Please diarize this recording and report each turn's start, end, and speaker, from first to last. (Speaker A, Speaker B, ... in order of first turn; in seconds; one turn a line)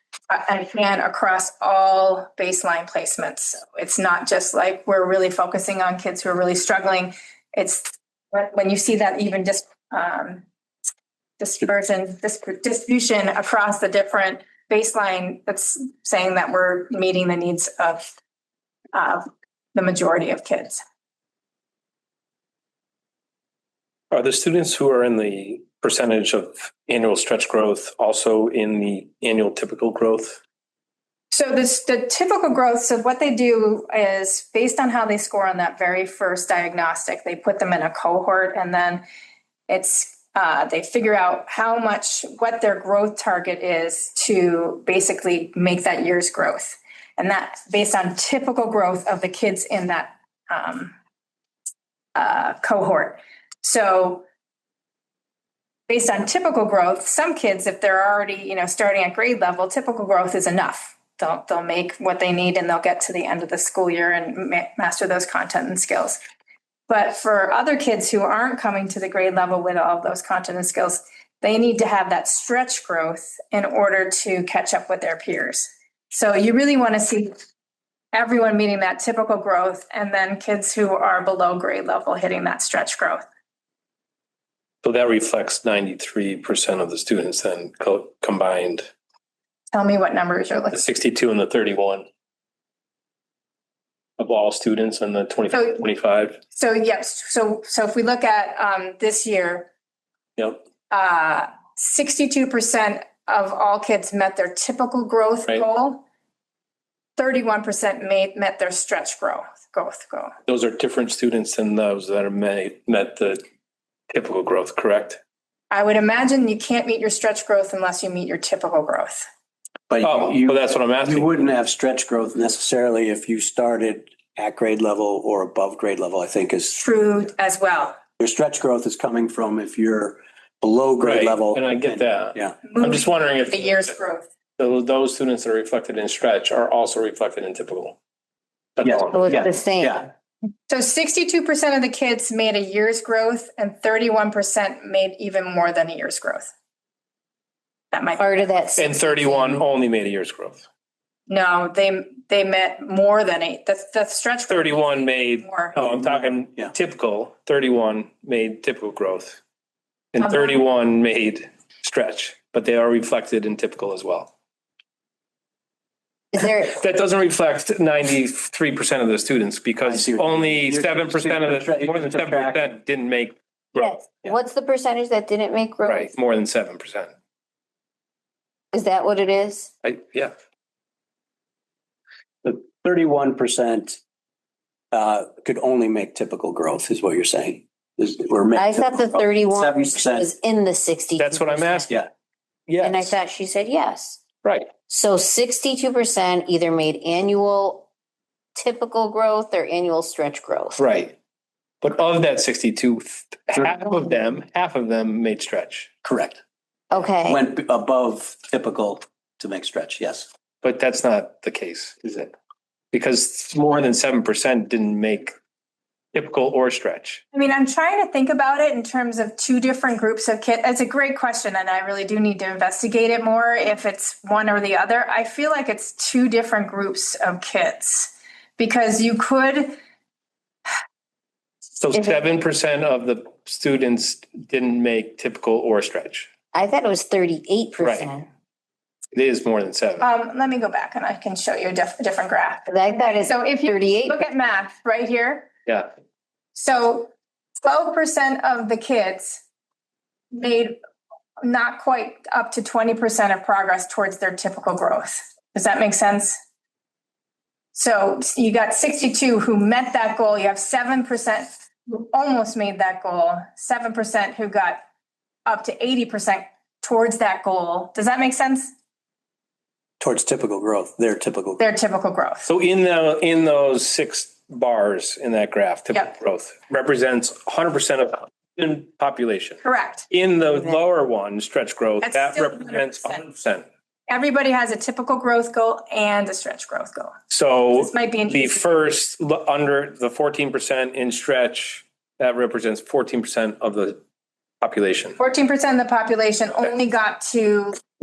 Speaker A: 0.3-10.4
Speaker A: 11.4-18.1
Speaker A: 18.9-20.8
Speaker B: 24.1-30.4
Speaker A: 31.3-39.0
Speaker A: 39.7-51.0
Speaker A: 52.1-54.2
Speaker A: 55.9-66.2
Speaker A: 66.9-77.3
Speaker A: 78.1-83.2
Speaker B: 84.8-88.9
Speaker A: 89.7-90.8
Speaker B: 90.7-92.1
Speaker B: 94.2-96.4
Speaker A: 95.5-95.8
Speaker A: 96.5-99.7
Speaker A: 100.9-106.0
Speaker A: 107.2-110.3
Speaker B: 110.5-113.4
Speaker B: 114.1-115.2
Speaker A: 115.7-119.2
Speaker C: 119.9-126.8
Speaker B: 120.0-121.4
Speaker A: 126.8-128.0
Speaker C: 128.2-132.6
Speaker B: 131.0-133.9
Speaker A: 132.7-134.3
Speaker B: 134.6-138.0
Speaker B: 138.8-139.5
Speaker C: 138.8-140.1
Speaker D: 139.1-140.0
Speaker A: 140.7-146.5
Speaker A: 147.9-148.8
Speaker D: 148.2-149.7
Speaker B: 148.8-150.7
Speaker A: 151.3-155.8
Speaker B: 154.5-159.4
Speaker B: 160.1-164.3
Speaker A: 160.2-160.6
Speaker D: 166.3-166.8
Speaker B: 166.6-173.9
Speaker C: 169.9-172.8
Speaker D: 173.8-176.1
Speaker B: 175.8-177.1
Speaker D: 178.7-179.7
Speaker B: 179.8-180.3
Speaker C: 182.4-184.0
Speaker C: 184.9-190.3
Speaker D: 188.6-191.9
Speaker B: 191.2-191.9
Speaker B: 192.7-193.2
Speaker D: 192.8-194.2
Speaker B: 194.4-194.7
Speaker D: 194.9-197.9
Speaker D: 198.6-200.8
Speaker B: 200.8-201.2
Speaker B: 201.8-205.9
Speaker C: 206.0-206.4
Speaker D: 206.9-207.4
Speaker C: 207.2-210.3
Speaker B: 210.6-212.3
Speaker B: 212.9-215.3
Speaker B: 216.1-217.2
Speaker A: 217.3-229.8
Speaker B: 231.8-236.3
Speaker D: 236.5-238.3
Speaker B: 237.8-238.1
Speaker B: 239.1-240.1
Speaker A: 240.0-245.5
Speaker D: 242.7-244.2
Speaker A: 246.5-249.4
Speaker A: 250.3-250.8
Speaker A: 251.4-256.4
Speaker A: 257.7-264.8
Speaker A: 265.5-268.7
Speaker C: 270.0-271.6
Speaker A: 271.6-272.5
Speaker B: 272.5-283.6
Speaker A: 279.6-280.1
Speaker A: 282.0-283.3
Speaker A: 284.1-287.1
Speaker B: 287.3-294.0
Speaker A: 287.7-288.7
Speaker B: 294.6-295.2
Speaker A: 295.2-297.8